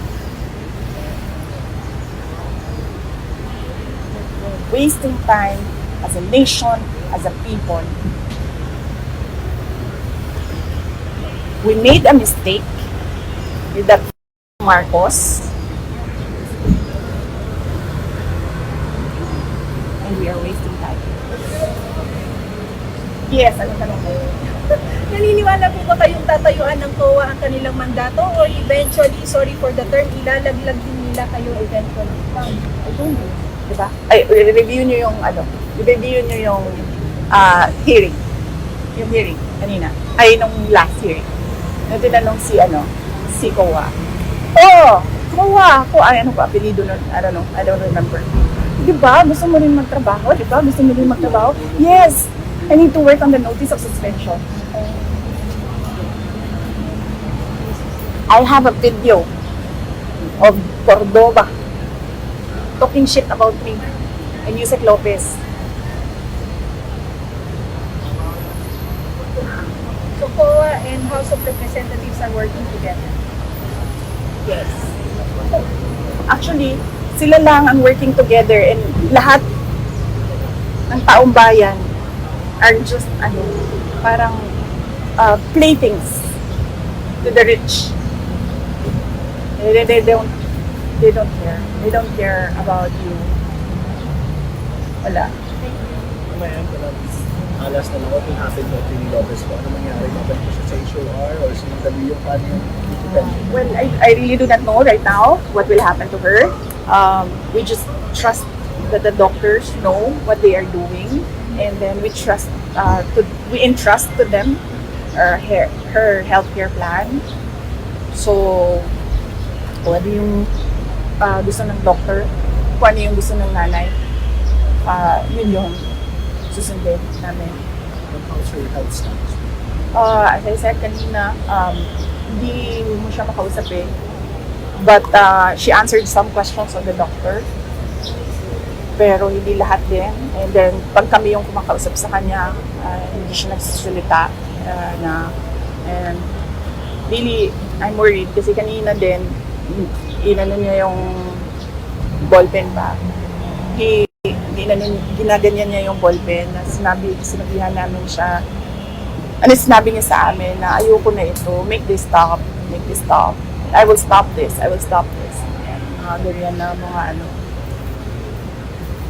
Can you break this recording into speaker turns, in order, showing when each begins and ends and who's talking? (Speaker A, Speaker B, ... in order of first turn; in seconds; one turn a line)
Speaker A: 4.5-7.9
Speaker A: 11.6-12.8
Speaker A: 13.7-14.1
Speaker A: 14.6-15.5
Speaker A: 20.0-21.1
Speaker A: 23.3-24.2
Speaker B: 24.7-32.6
Speaker A: 32.7-38.2
Speaker A: 39.0-41.3
Speaker A: 41.9-43.9
Speaker A: 44.5-48.2
Speaker A: 48.8-54.4
Speaker A: 58.3-59.3
Speaker A: 60.4-61.5
Speaker A: 62.8-63.8
Speaker A: 64.4-65.4
Speaker B: 70.2-73.1
Speaker A: 74.4-74.9
Speaker A: 76.3-79.4
Speaker A: 80.9-81.9
Speaker A: 82.6-84.5
Speaker A: 85.2-86.3
Speaker A: 87.2-87.9
Speaker A: 89.6-90.3
Speaker A: 91.0-93.3
Speaker A: 95.0-95.3
Speaker C: 96.3-103.4
Speaker A: 103.2-114.6
Speaker A: 115.1-117.2
Speaker A: 118.1-118.9
Speaker A: 119.8-120.5
Speaker A: 121.2-123.9
Speaker A: 124.8-125.9
Speaker A: 126.5-127.6
Speaker C: 128.1-129.4
Speaker A: 129.9-133.9
Speaker A: 134.8-137.5
Speaker A: 139.0-145.3
Speaker A: 145.8-146.3
Speaker A: 147.1-151.4
Speaker A: 152.2-153.0
Speaker A: 153.7-158.4
Speaker A: 159.4-167.3